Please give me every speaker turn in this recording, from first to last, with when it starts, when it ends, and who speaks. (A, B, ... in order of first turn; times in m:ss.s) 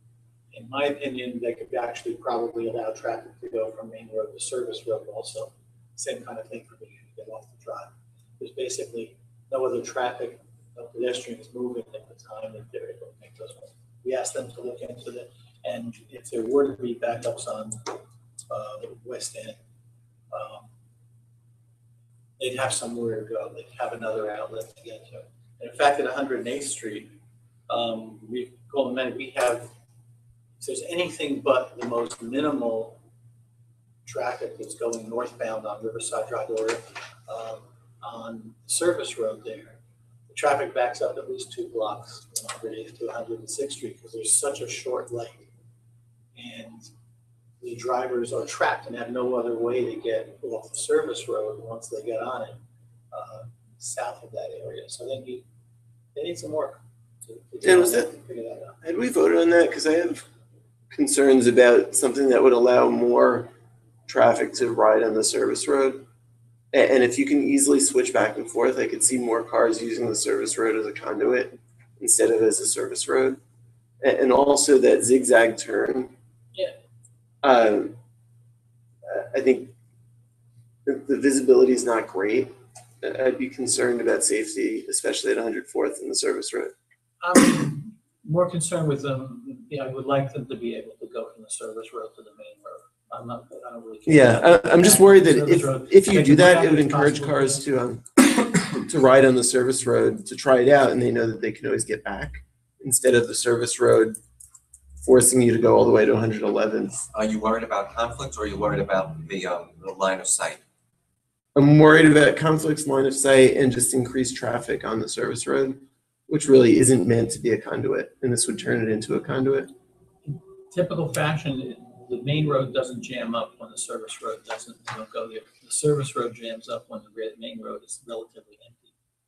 0:00.5-0:18.0 A
0:18.5-0:19.6 A
0:20.3-0:20.7 A
0:22.4-0:27.2 A
0:27.7-0:29.7 A
0:30.6-0:33.0 A
0:34.0-0:39.8 A
0:40.3-0:45.5 A
0:46.4-0:46.9 A
0:47.6-0:55.4 A
0:56.2-0:58.8 A
0:57.6-0:58.1 B
0:58.8-1:00.2 B
1:00.9-1:03.5 B
1:04.1-1:06.0 B
1:06.7-1:13.4 B
1:14.0-1:16.1 B
1:17.4-1:17.9 B
1:19.0-1:19.7 B
1:20.9-1:26.7 B
1:27.2-1:37.7 A
1:34.1-1:44.2 B
1:45.0-1:47.1 B
1:47.1-1:50.6 C
1:51.6-1:59.7 B
2:00.2-2:08.9 A